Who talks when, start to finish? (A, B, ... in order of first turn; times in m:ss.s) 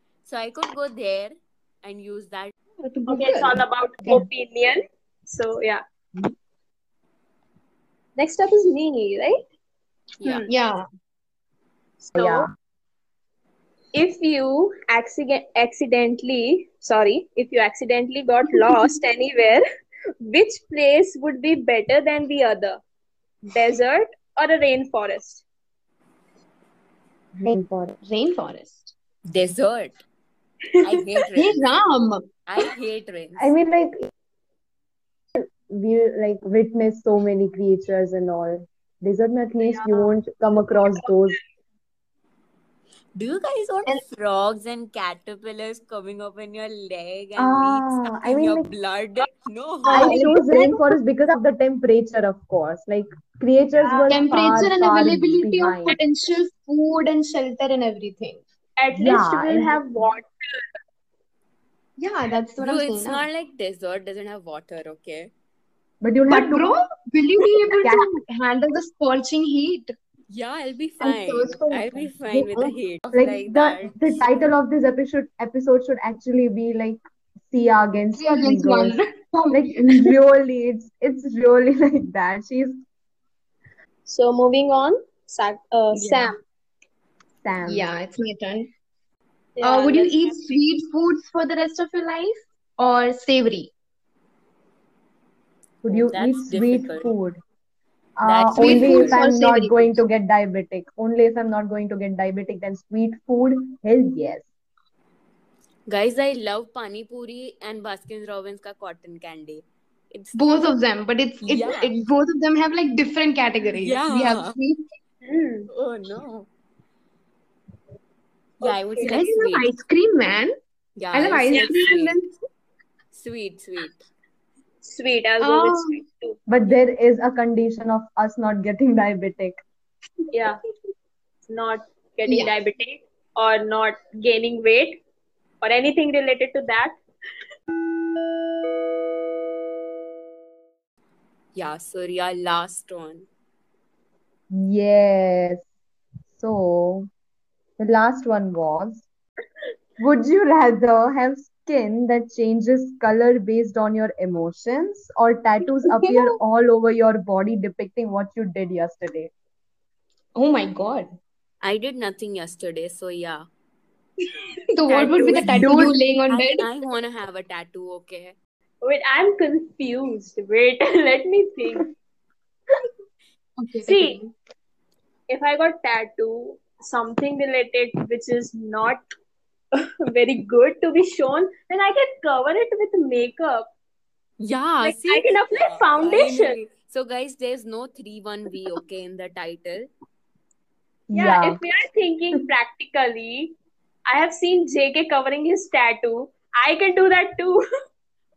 0:00.2-0:02.5 A
0:02.8-0:04.2 B
0:03.1-0:05.8 C
0:08.2-0:09.4 C
0:10.2-0:10.5 A
0:10.5-0:10.8 B
0:12.0-0:12.5 C
0:12.2-0:12.5 D
0:13.9-0:19.6 C
0:18.5-0:18.9 B
0:20.2-0:22.8 C
0:23.5-0:25.4 C
0:27.4-0:28.0 D
0:28.0-0:28.9 B
0:29.3-0:30.0 A
0:30.8-0:31.6 A
0:31.3-0:32.3 B
0:32.4-0:33.5 A
0:33.4-0:34.1 D
0:35.4-0:41.4 D
0:39.6-0:40.2 C
0:40.7-0:41.2 C
0:43.2-0:50.2 A
0:47.4-0:48.7 D
0:49.9-0:50.9 B
0:49.9-0:56.0 D
0:53.8-0:54.3 C
0:54.1-0:58.4 B
0:58.8-1:00.6 C
0:58.9-0:59.8 D
1:02.0-1:03.2 B
1:02.6-1:05.3 A
1:06.0-1:06.7 D
1:06.3-1:09.9 B
1:07.8-1:08.1 D
1:10.3-1:14.2 A
1:11.0-1:12.7 B
1:13.1-1:19.0 D
1:18.2-1:20.1 B
1:19.5-1:22.8 D
1:24.0-1:26.3 C
1:27.4-1:27.9 D
1:27.6-1:28.7 B
1:29.6-1:30.5 C
1:29.6-1:33.7 B
1:35.8-1:37.4 D
1:35.9-1:37.1 A
1:38.2-1:44.4 D
1:38.2-1:39.2 A
1:38.5-1:40.0 B
1:45.9-1:50.4 A
1:50.3-1:54.8 B
1:51.4-1:51.9 A
1:53.8-1:54.6 A
1:55.2-1:55.7 C
1:55.7-1:56.5 A
1:58.6-1:59.7 A
1:59.0-1:59.3 C
1:59.0-2:00.5 B
2:01.0-2:02.2 A
2:01.1-2:02.4 B
2:03.1-2:04.0 A
2:04.8-2:06.4 C
2:05.4-2:06.0 B
2:06.5-2:09.6 D
2:10.3-2:10.6 C
2:11.5-2:15.0 C
2:12.3-2:12.5 B
2:15.6-2:17.0 C
2:21.5-2:23.2 A
2:24.5-2:25.6 D
2:26.4-2:27.1 D
2:27.8-2:29.0 D
2:30.0-2:39.3 D
2:35.9-2:36.4 B
2:40.3-2:41.1 B
2:41.6-2:43.4 A
2:44.7-2:46.6 B
2:44.9-2:48.3 A
2:45.4-2:45.9 D
2:48.8-2:51.9 C
2:53.6-2:54.3 B
2:53.8-2:54.2 C
2:55.3-2:59.0 C
2:59.7-3:03.7 C
3:04.4-3:09.9 A
3:04.8-3:06.6 C
3:11.1-3:11.6 D
3:11.1-3:13.6 C
3:14.1-3:17.6 C